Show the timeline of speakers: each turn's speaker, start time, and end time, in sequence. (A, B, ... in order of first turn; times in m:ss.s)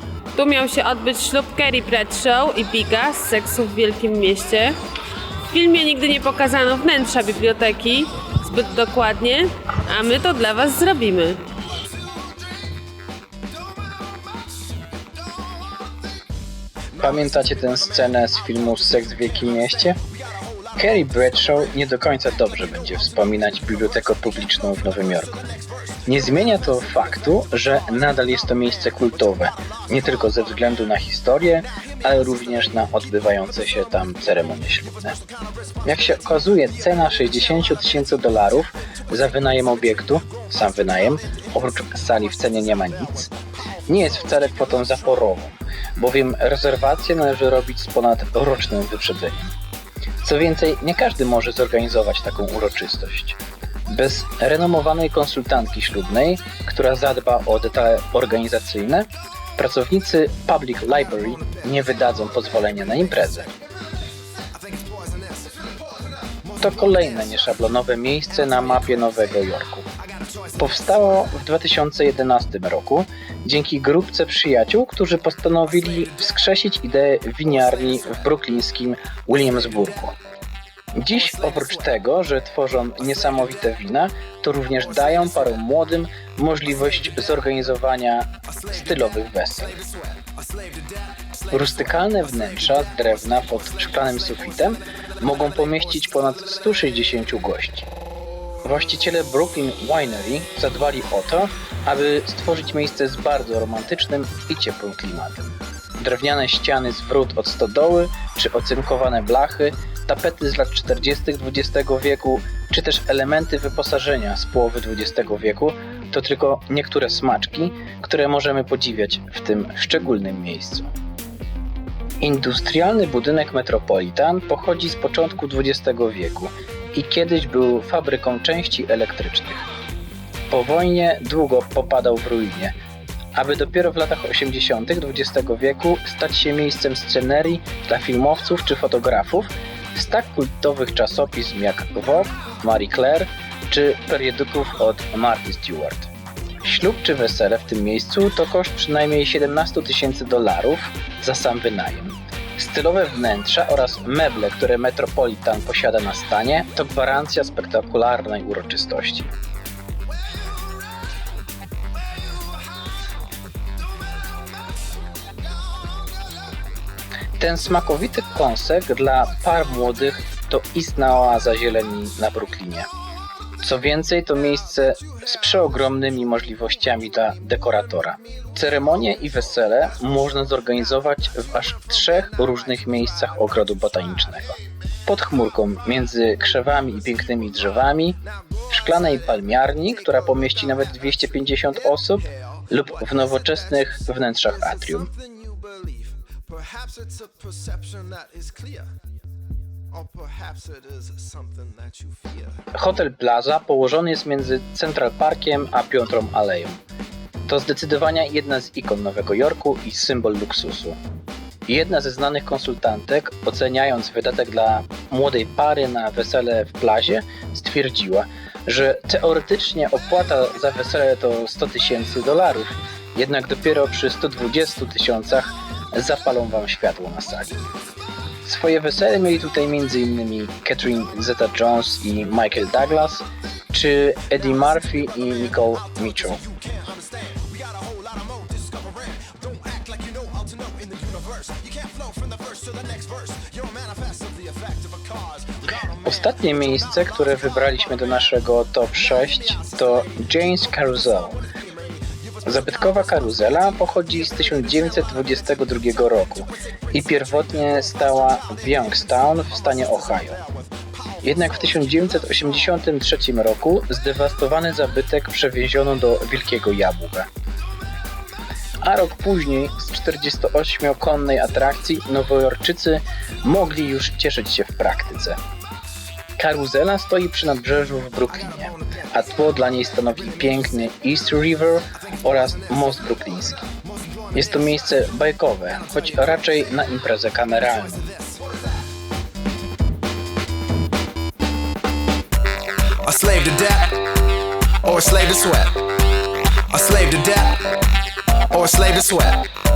0:00.3-0:04.7 A
0:05.5-0:11.4 A
0:17.0-0:20.0 B
0:19.2-0:21.0 C
0:20.8-0:25.4 B
0:22.4-0:27.4 C
0:26.0-0:35.1 B
0:28.9-0:30.4 C
0:31.8-0:33.4 C
0:35.0-0:38.4 C
0:35.8-0:43.3 B
0:39.1-0:41.4 C
0:42.4-0:43.0 C
0:43.9-0:49.5 B
0:50.2-1:03.5 B
1:01.2-1:02.2 C
1:04.5-1:05.8 C
1:06.4-1:07.6 C
1:06.6-1:09.9 B
1:08.5-1:09.0 C
1:10.0-1:11.3 C
1:10.6-1:20.2 B
1:15.8-1:16.2 C
1:17.7-1:18.3 C
1:20.9-1:29.8 B
1:21.1-1:22.0 C
1:23.1-1:23.5 C
1:25.0-1:25.5 C
1:28.5-1:34.6 C
1:31.5-1:37.9 B
1:38.6-2:00.9 B
2:02.2-2:09.6 B
2:10.5-2:12.7 B
2:13.3-2:26.1 B
2:26.6-2:39.3 B
2:47.4-2:52.9 B
2:53.6-3:15.1 B
2:58.4-2:59.7 C
3:01.6-3:02.6 C
3:08.4-3:11.2 C
3:12.4-3:13.9 C
3:14.6-3:18.9 C
3:19.9-3:22.6 C
3:22.7-3:26.8 B
3:27.5-3:31.0 B
3:31.6-3:47.7 B
3:48.4-3:56.4 B
3:56.2-4:05.6 C
4:06.0-4:11.4 B
4:11.8-4:15.6 C
4:12.4-4:20.4 B
4:18.1-4:18.4 C
4:19.7-4:21.4 C
4:21.2-4:27.3 B
4:28.8-4:35.4 B
4:36.4-4:43.6 B
4:38.4-4:40.9 C
4:42.3-4:42.9 C
4:43.7-4:45.0 C
4:44.3-4:48.1 B
4:45.7-4:46.6 C
4:47.6-4:48.7 C
4:53.0-4:54.1 C
4:54.8-4:55.9 C
4:56.7-4:57.8 C
4:58.5-4:59.5 C